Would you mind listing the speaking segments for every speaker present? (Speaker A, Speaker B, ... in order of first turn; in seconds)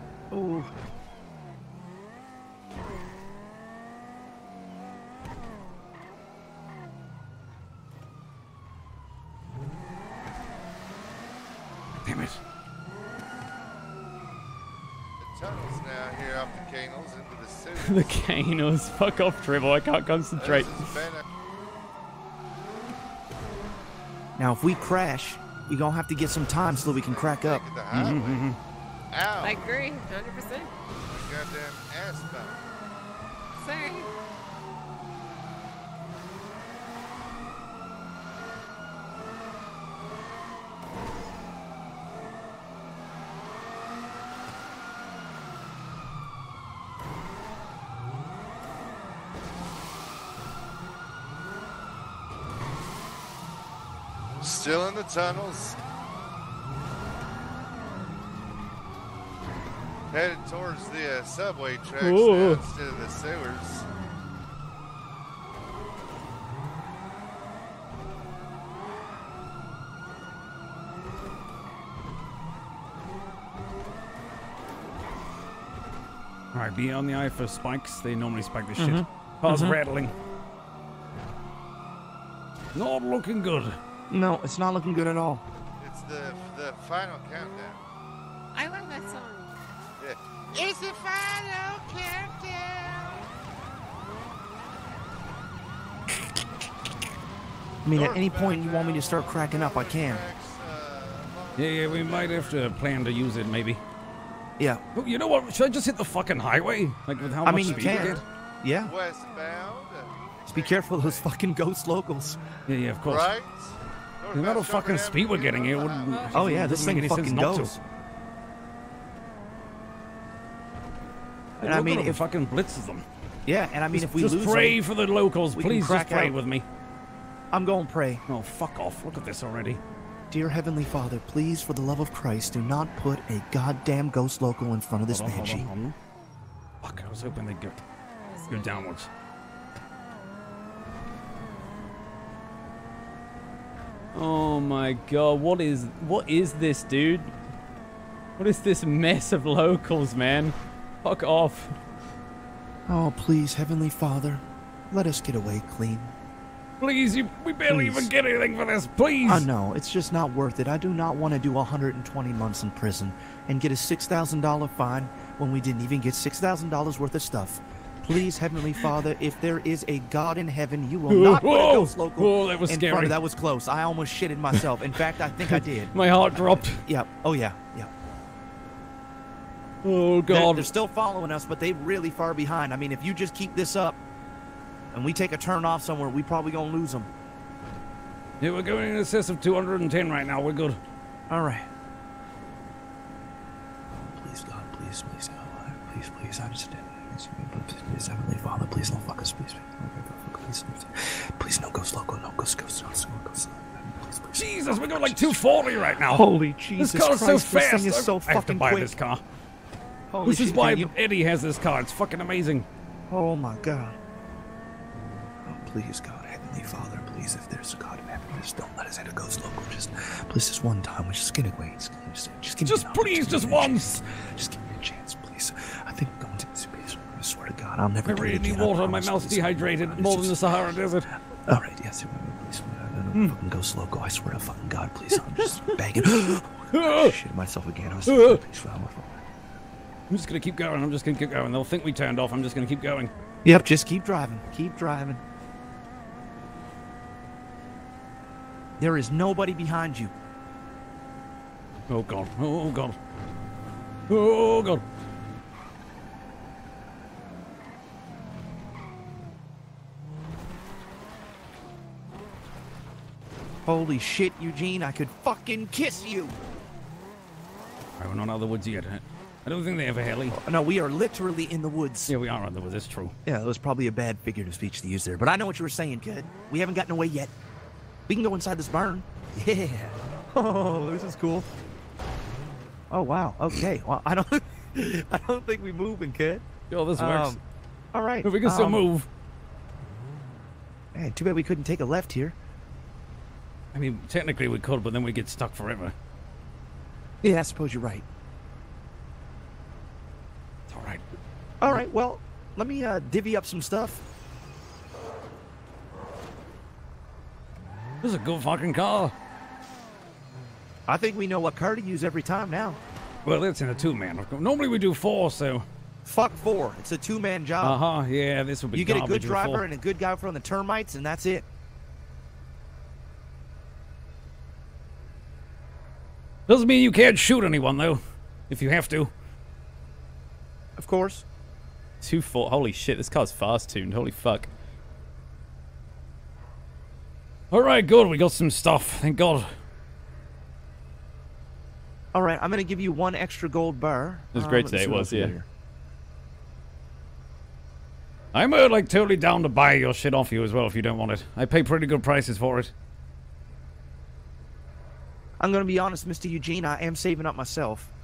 Speaker A: 0.3-0.7, 24.4-27.6, 78.8-79.8, 84.1-85.4, 97.8-100.2, 104.6-104.8, 107.4-108.9, 110.5-112.4, 116.3-117.7, 121.6-122.2, 123.5-124.8, 125.5-126.3, 127.5-128.2, 130.3-135.7, 152.9-156.1, 157.7-158.1, 159.2-177.9, 180.3-184.0, 184.9-187.1, 191.3-191.7, 193.9-209.0, 210.1-210.9, 213.1-213.9, 215.4-230.8, 231.4-239.2, 243.4-245.2, 248.8-250.1, 263.6-266.3, 270.3-272.1, 273.2-277.3, 278.1-281.5, 282.9-286.4, 287.0-287.4, 287.9-288.9, 290.9-292.4, 297.2-298.0, 301.6-304.0, 310.9-312.8, 316.0-317.8, 318.7-321.4, 330.8-331.2, 342.1-345.4, 355.4-357.9
Speaker B: 12.0-12.4, 27.9-28.5, 76.5-80.1, 82.7-83.8, 101.5-103.8, 104.9-108.2, 112.7-113.3, 114.3-117.8, 121.6-123.0, 123.9-126.6, 128.3-129.8, 135.1-135.9, 136.8-137.8, 138.5-139.1, 156.8-159.5, 171.1-173.2, 175.9-176.8, 179.8-180.7, 188.4-190.8, 204.3-209.2, 210.2-212.7, 222.6-224.0, 228.0-231.1, 236.7-237.1, 238.1-238.4, 240.1-243.1, 251.9-252.9, 254.1-254.8, 268.0-270.4, 272.1-273.1, 286.7-287.4, 288.2-289.1, 293.7-295.9, 300.7-301.0, 308.0-309.1, 313.2-315.6, 317.6-319.6, 326.5-329.1, 337.5-339.5, 348.3-352.7
Speaker C: 15.2-18.2, 20.4-21.2, 26.9-28.5, 29.1-29.6, 31.1-32.6, 54.4-55.8, 60.1-63.9, 85.8-87.8, 90.0-93.2, 97.9-102.7, 107.2-108.1, 108.8-111.3, 113.0-116.3
Speaker D: 17.8-20.9, 62.0-62.6, 144.1-147.3, 148.4-151.7, 332.0-334.5, 344.3-345.3
Speaker E: 29.4-30.7, 33.5-34.1, 88.5-89.5, 138.3-138.9